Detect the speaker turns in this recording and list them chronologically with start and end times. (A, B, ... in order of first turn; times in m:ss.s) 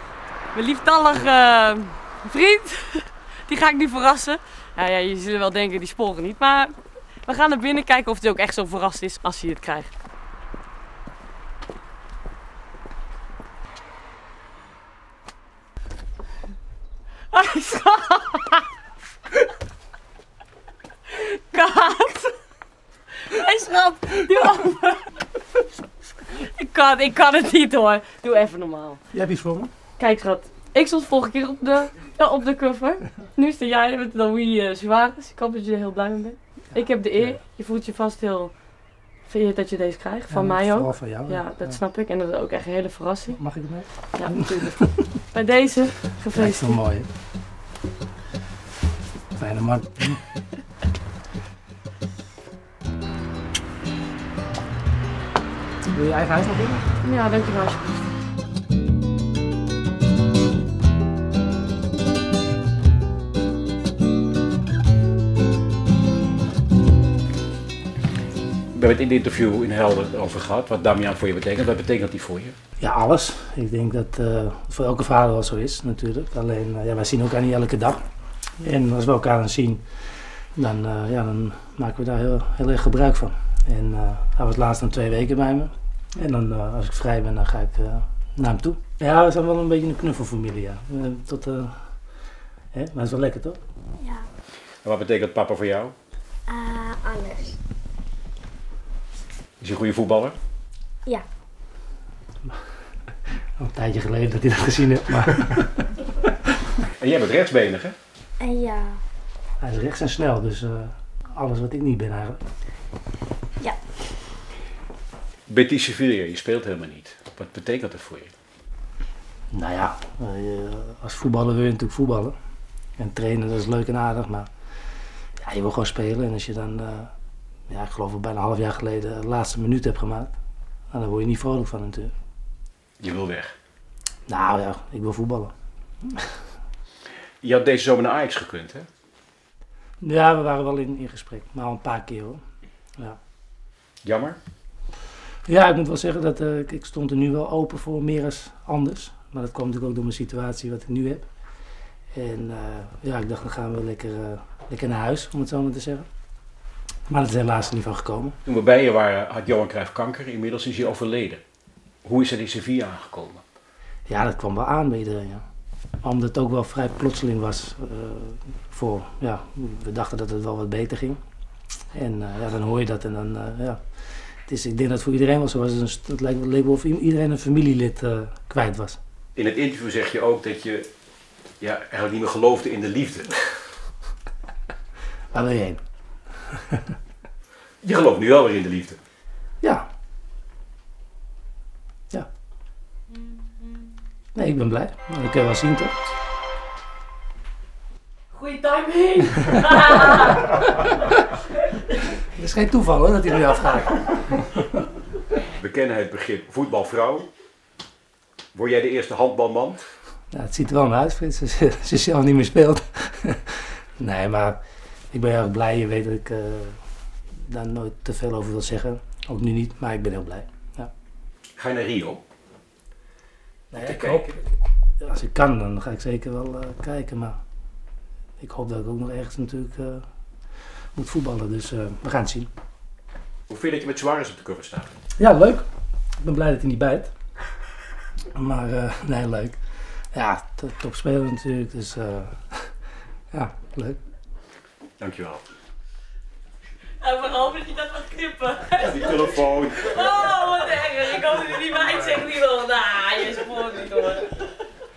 0:00.5-0:09.9 A
0:17.3-0:18.6 A
0:21.1-0:22.4 A
0:23.2-0:25.2 A
0:26.3-0:29.0 A
0:29.1-0:29.7 B
0:30.0-0:46.8 A
0:36.7-0:37.4 B
0:40.3-0:41.8 B
0:43.3-0:45.2 B
0:46.3-0:47.1 B
0:49.4-0:50.3 B
0:55.9-0:56.9 B
0:57.0-0:58.1 A
1:08.7-1:12.6 C
1:12.8-1:18.0 B
1:18.6-1:31.8 B
1:32.7-1:33.6 B
1:34.0-1:34.3 D
1:34.8-1:35.9 C
1:36.5-1:37.6 D
1:39.6-1:40.4 C
1:43.6-1:45.9 B
1:46.9-1:48.0 C
1:48.4-1:49.0 D
1:49.6-1:52.4 B
1:55.5-1:58.3 C
1:59.5-2:02.4 B
2:03.0-2:04.5 B
2:05.4-2:07.1 B
2:07.7-2:10.3 B
2:10.9-2:12.1 B
2:13.0-2:13.6 C
2:14.3-2:15.5 B
2:16.0-2:16.4 B
2:17.4-2:18.9 C
2:20.0-2:22.4 B
2:24.0-2:24.4 C
2:25.4-2:31.3 B
2:32.1-2:36.1 B
2:37.1-2:38.4 B
2:38.5-2:41.4 C
2:42.0-2:43.4 C
2:44.1-2:45.4 B
2:46.0-2:51.2 B
2:51.9-2:59.0 B
2:59.4-3:00.9 C
3:01.6-3:03.5 C
3:05.3-3:06.8 B
3:07.8-3:09.0 C
3:14.4-3:15.9 B
3:18.3-3:20.6 A
3:20.7-3:21.0 B
3:21.7-3:22.0 A
3:22.3-3:24.8 B
3:25.5-3:27.3 C
3:28.5-3:29.9 C
3:30.3-3:40.9 B
3:41.6-3:42.2 C
3:43.7-3:44.5 B
3:43.7-3:44.3 C
3:45.0-3:47.4 B
3:48.4-3:52.5 B
3:53.5-3:54.9 C
3:55.2-3:55.6 B
3:56.2-3:57.1 B
3:58.3-4:04.0 B
4:05.0-4:05.4 C
4:07.0-4:14.6 A
4:08.8-4:10.0 C